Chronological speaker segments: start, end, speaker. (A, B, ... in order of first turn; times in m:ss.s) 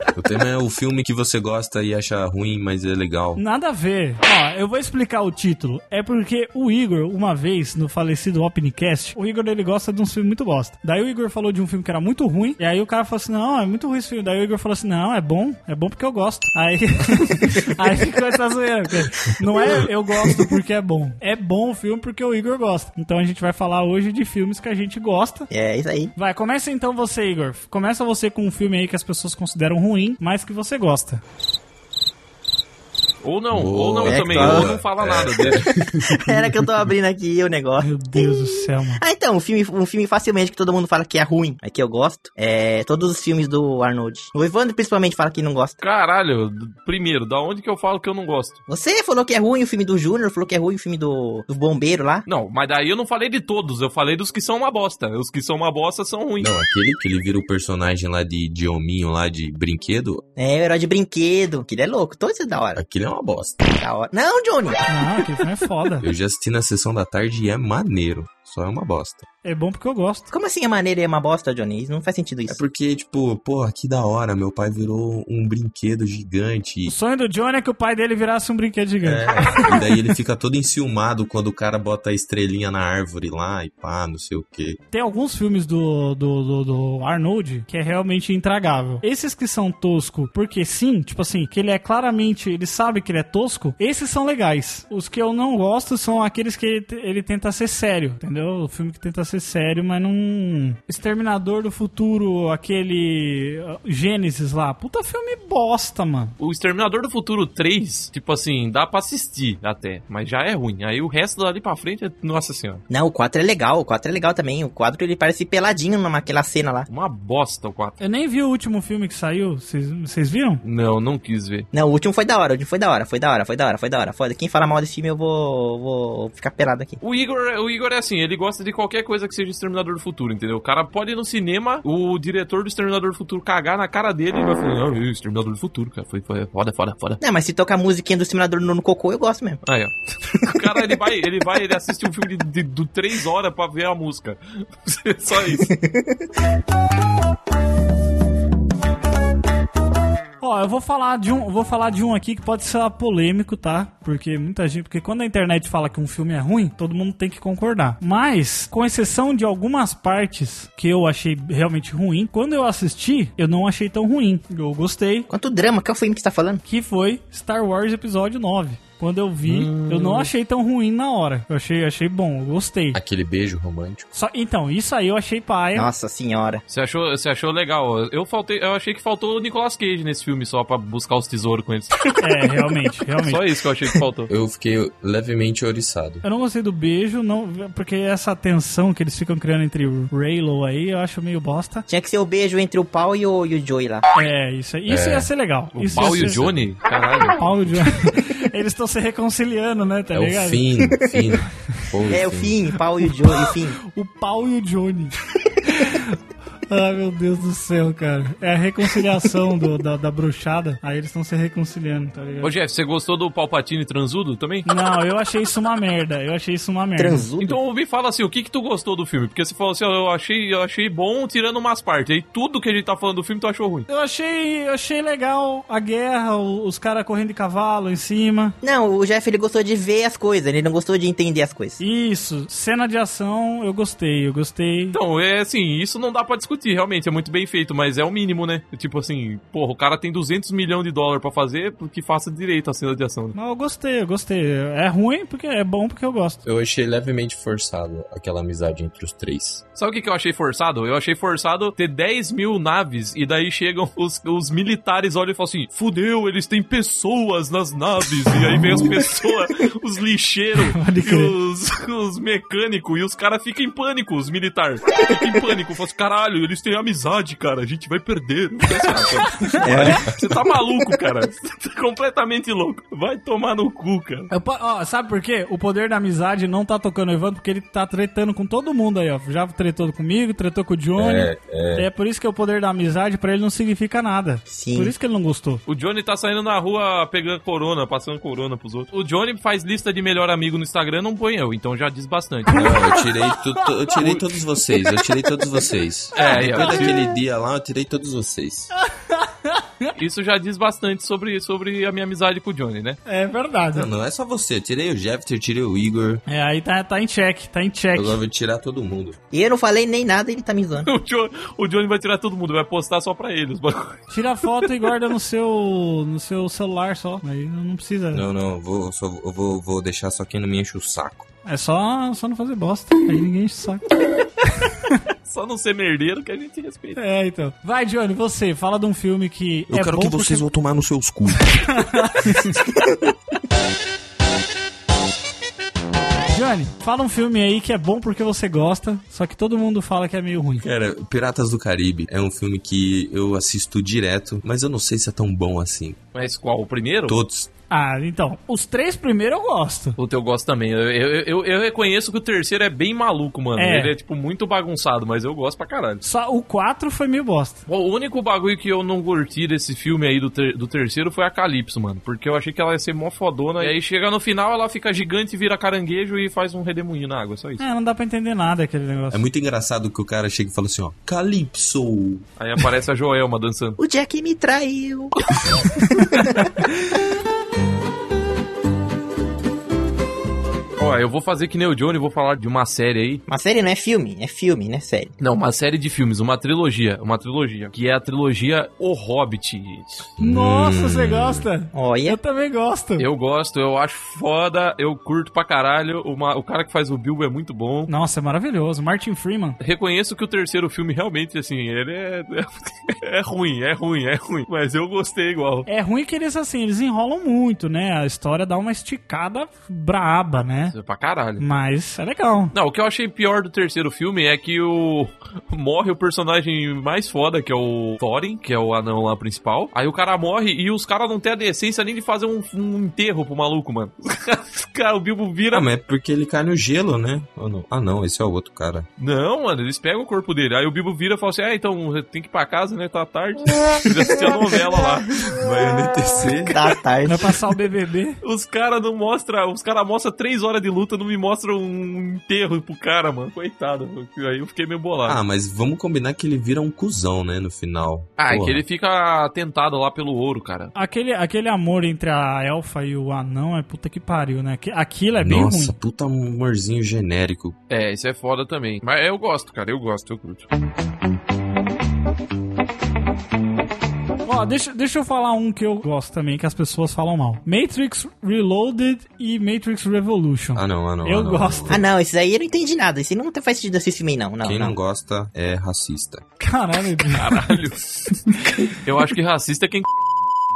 0:00.2-0:03.4 A
0:03.4-0:25.5 B
0:25.5-0:26.1 C
0:26.2-0:31.2 B
0:33.2-0:35.7 D
0:33.5-0:36.9 A
0:34.1-0:34.7 C
0:35.5-0:45.8 C
0:37.8-0:39.0 B
0:45.8-0:48.6 D
0:48.7-0:52.3 C
0:52.3-0:56.5 D
0:56.4-1:00.2 A
1:00.4-1:02.8 C
1:02.8-1:03.7 A
1:03.8-1:04.9 C
1:04.9-1:06.0 B
1:06.0-1:09.3 A
1:09.4-1:10.3 B
1:10.3-1:12.6 C
1:12.5-1:17.0 A
1:16.9-1:19.7 B
1:19.0-1:24.8 A
1:24.9-1:46.4 B
1:46.4-1:52.8 D
1:52.9-1:56.9 C
1:56.9-1:58.0 D
1:58.0-2:00.6 B
2:00.6-2:01.7 D
2:01.7-2:07.0 C
2:07.0-2:17.2 D
2:17.2-2:19.6 C
2:19.7-2:25.7 D
2:25.6-2:26.2 C
2:30.4-2:45.3 B
2:45.3-2:46.6 C
2:46.7-2:53.0 B
2:49.4-2:50.3 D
2:52.9-2:54.1 A
2:54.1-2:55.9 B
2:55.8-2:56.6 C
2:56.7-3:02.1 D
3:02.2-3:03.4 B
3:03.2-3:04.3 D
3:04.3-3:06.2 A
3:06.2-3:11.9 B
3:11.9-3:14.1 C
3:14.1-3:16.4 B
3:14.9-3:15.3 A
3:15.8-3:17.8 D
3:16.2-3:16.7 A
3:17.4-3:20.6 B
3:20.1-3:22.6 A
3:22.1-3:23.8 C
3:23.9-3:32.5 B
3:32.4-3:34.7 D
3:34.7-3:37.3 B
3:37.0-3:37.6 C
3:37.4-3:43.9 D
3:43.9-3:48.6 B
3:48.6-3:51.8 C
3:51.8-3:55.0 B
3:54.9-4:03.4 D
4:03.3-4:06.4 B
4:06.4-4:09.6 A
4:09.8-4:34.3 D
4:20.6-4:21.3 B
4:29.4-4:30.0 B
4:29.6-4:30.1 C
4:29.8-4:30.1 A
4:34.3-4:45.6 B
4:41.0-4:41.9 A
4:44.5-4:44.9 C
4:45.7-4:52.8 D
4:52.5-4:52.8 B
4:52.5-4:58.7 A
4:56.2-4:57.0 B
4:56.2-4:57.0 D
4:58.8-4:59.9 B
5:00.0-5:03.0 D
5:03.1-5:03.9 B
5:03.7-5:06.2 A
5:06.3-5:08.2 B
5:07.9-5:09.2 A
5:09.3-5:10.9 C
5:10.8-5:14.0 D
5:14.1-5:18.2 B
5:18.1-5:21.3 A
5:21.4-5:23.8 B
5:24.5-5:25.0 B
5:25.3-5:27.0 D
5:27.0-5:30.4 B
5:29.7-5:31.9 A
5:31.6-5:32.6 B
5:36.3-5:40.6 B
5:40.6-5:46.0 A
5:46.1-5:47.2 D
5:47.1-5:47.5 A
5:47.7-5:50.0 B
5:50.0-5:56.0 D
5:53.6-5:54.0 B
5:56.0-5:57.6 B
5:57.7-6:07.6 D
6:07.6-6:09.2 B
6:09.1-6:12.2 A
6:12.4-6:13.8 D
6:13.8-6:16.5 C
6:20.8-6:23.2 D
6:23.3-6:25.1 C
6:25.2-6:30.1 D
6:30.2-6:31.5 A
6:30.2-6:33.0 B
6:31.7-6:32.2 C
6:33.0-6:37.9 D
6:37.9-6:39.6 B
6:39.6-6:45.7 D
6:45.7-6:50.7 B
6:50.7-6:51.4 D
6:51.4-6:52.5 B
6:52.5-7:05.7 D
7:05.5-7:08.9 A
7:09.0-7:15.4 D
7:15.4-7:16.6 A
7:16.5-7:17.3 C
7:17.0-7:18.2 B
7:18.2-7:25.2 D
7:25.0-7:28.6 A
7:28.2-7:30.7 D
7:30.8-7:35.8 B
7:35.2-7:37.6 A
7:37.7-7:40.5 D
7:44.2-7:51.8 B
7:50.6-7:51.8 A
7:51.7-7:54.8 C
7:54.4-7:56.2 A
7:56.4-7:57.6 B
7:57.1-7:59.9 D